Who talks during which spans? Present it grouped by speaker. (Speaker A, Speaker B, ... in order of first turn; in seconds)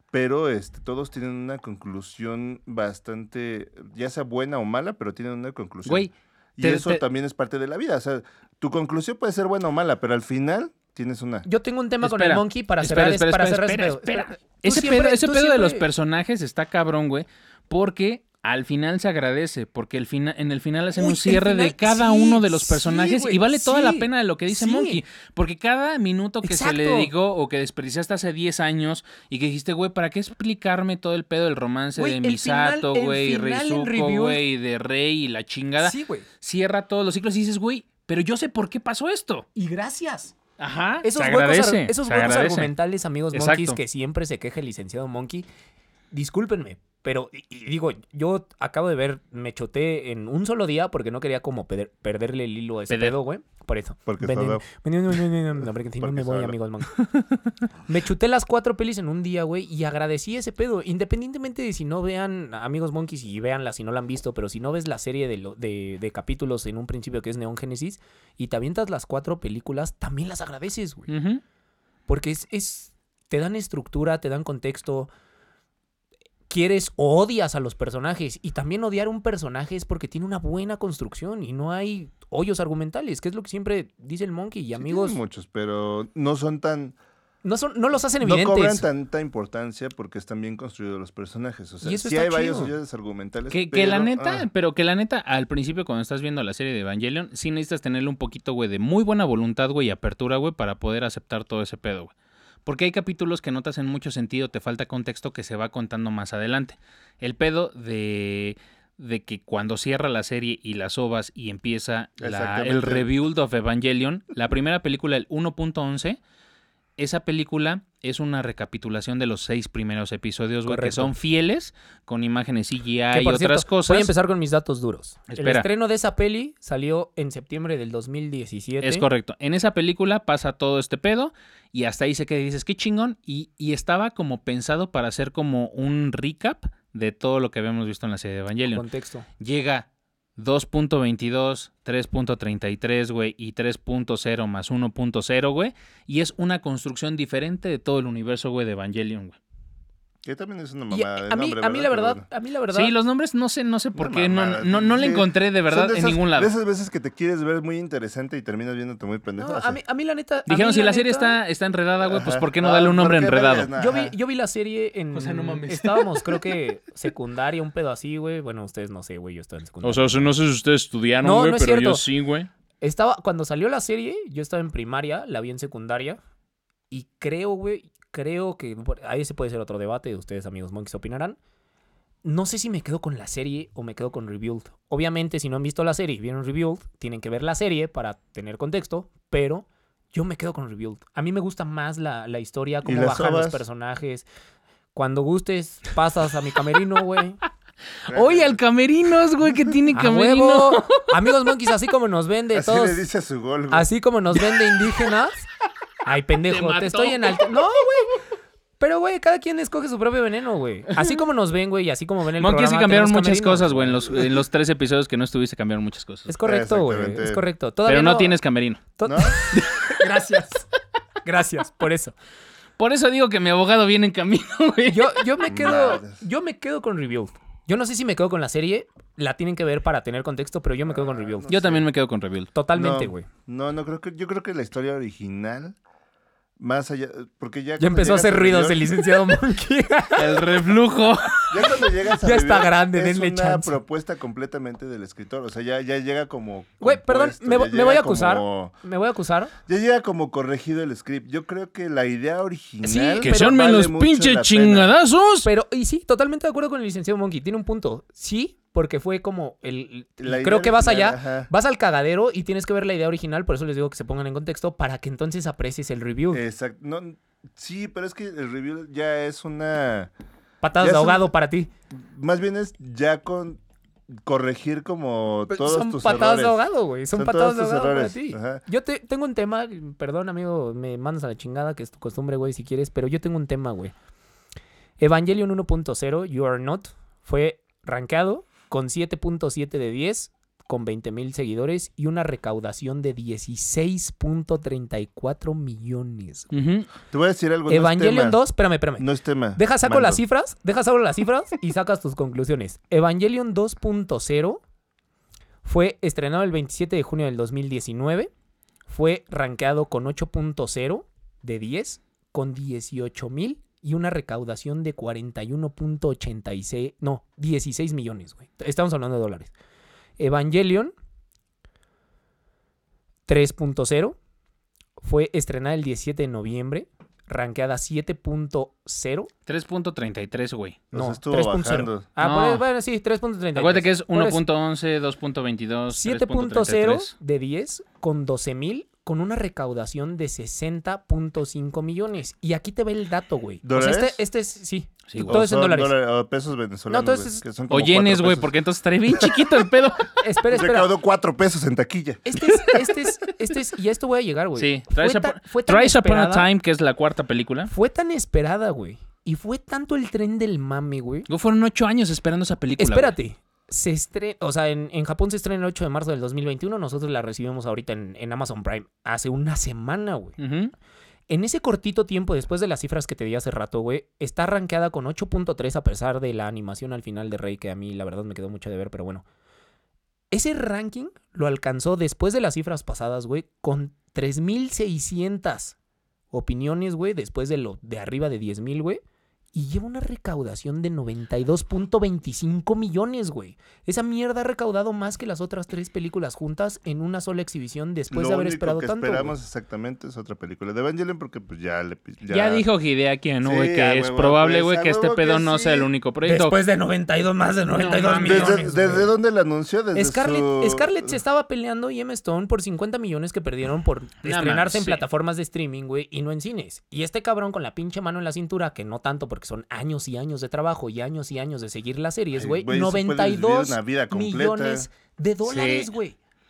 Speaker A: 0.1-11.5, 54.1-54.7, 56.0-56.6, 84.8-87.0, 88.2-94.5, 112.2-113.1, 150.2-152.2, 154.0-159.8, 162.0-164.2, 192.8-193.6, 198.1-198.6, 202.5-203.9, 216.4-217.4, 219.1-219.4, 225.5-226.2, 230.9-231.9, 232.7-235.8, 236.6-239.0, 241.5-248.7, 249.7-254.9, 260.2-261.5, 266.3-270.1, 270.8-271.3, 271.9-273.6, 274.1-276.6, 277.1-278.6, 297.1-298.4, 299.0-300.2, 330.9-332.1, 343.6-344.2, 345.2-348.5, 350.5-352.3, 398.1-402.7, 403.4-405.9, 408.2-411.2, 422.4-424.9
Speaker B: 5.8-7.0, 12.0-39.5, 40.6-42.7, 43.3-43.8, 52.9-53.1, 71.1-71.4, 93.5-102.1, 102.7-116.2, 117.0-124.1, 125.3-125.7, 128.8-138.8, 139.4-149.4, 152.7-156.5, 160.5-163.7, 165.1-166.5, 169.8-172.5, 198.1-201.3, 206.5-207.6, 210.9-211.2, 212.4-216.3, 217.9-218.8, 219.5-220.0, 222.8-225.2, 231.5-232.5, 240.2-241.7, 253.2-255.5, 296.5-296.9, 329.5-330.8, 332.2-332.6, 333.6-337.1, 345.1-345.4, 347.7-350.2, 354.6-357.7, 361.3-363.1, 370.4-370.7, 402.3-406.6, 407.7-408.7, 414.2-415.0, 425.4-425.9
Speaker C: 11.4-15.8, 20.9-25.0, 26.4-27.1, 32.0-34.4, 35.8-36.3, 39.5-40.4, 41.0-45.5, 46.1-57.0, 57.9-71.1, 72.1-75.1, 76.5-85.2, 87.4-88.9, 91.8-92.7, 120.7-121.1, 123.1-129.1, 138.7-139.3, 150.9-152.9, 159.4-161.4, 163.8-170.3, 171.2-172.1, 172.8-176.2, 176.9-181.4, 182.2-194.3, 194.9-197.4, 199.9-203.0, 203.7-205.5, 206.1-208.1, 208.8-214.2, 216.3-218.4, 219.0-220.7, 221.2-222.2, 224.9-231.5, 232.5-233.3, 237.8-240.5, 242.1-243.8, 246.8-249.5, 252.8-253.5, 255.4-266.4, 270.6-271.7, 275.5-283.9, 285.0-296.5, 297.7-304.6, 305.6-308.3, 308.9-319.5, 320.2-320.9, 323.3-324.2, 325.0-329.3, 330.9-334.4, 335.9-346.0, 346.9-347.4, 350.2-350.9, 352.2-356.5, 357.7-361.3, 362.8-370.4, 371.3-379.2, 380.3-385.8, 386.3-389.0, 389.5-399.3, 406.2-409.1, 409.9-426.2